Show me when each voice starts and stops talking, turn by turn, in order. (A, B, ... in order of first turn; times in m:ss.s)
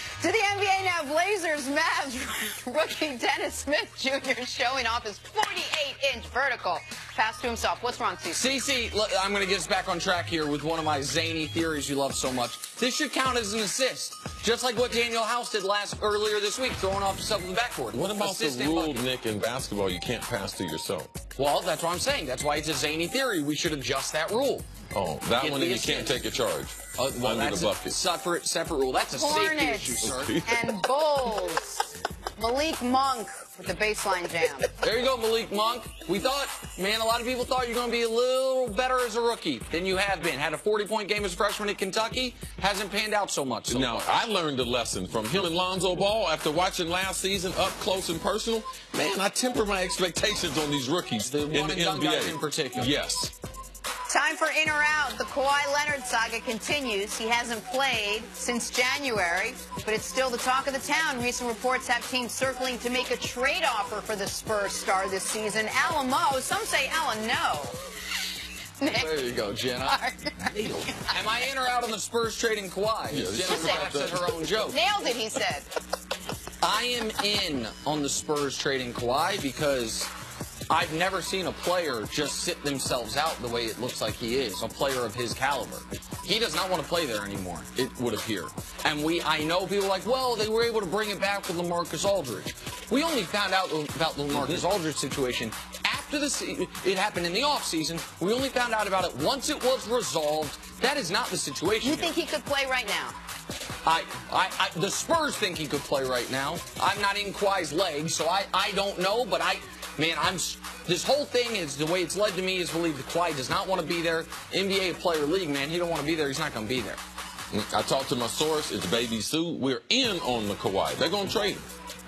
0:00.2-0:08.6 A
0:08.3-0:19.0 B
0:17.9-0:21.1 C
0:21.4-0:24.7 B
0:24.9-0:28.0 C
0:25.4-0:26.2 B
0:27.0-0:30.4 B
0:29.1-0:34.7 A
0:30.0-0:30.8 C
0:34.8-0:44.1 B
0:43.7-0:53.3 C
0:51.2-0:52.9 B
0:54.1-1:07.8 A
1:08.8-1:09.2 A
1:08.9-1:10.0 B
1:09.8-1:11.1 A
1:10.6-1:14.8 B
1:13.1-1:14.4 C
1:13.5-1:13.9 A
1:14.6-1:15.7 A
1:16.6-1:20.1 B
1:20.7-1:27.7 B
1:27.8-1:28.5 C
1:28.8-1:42.1 B
1:34.3-1:34.6 C
1:41.8-1:43.2 A
1:43.8-1:57.0 B
1:57.5-2:01.7 C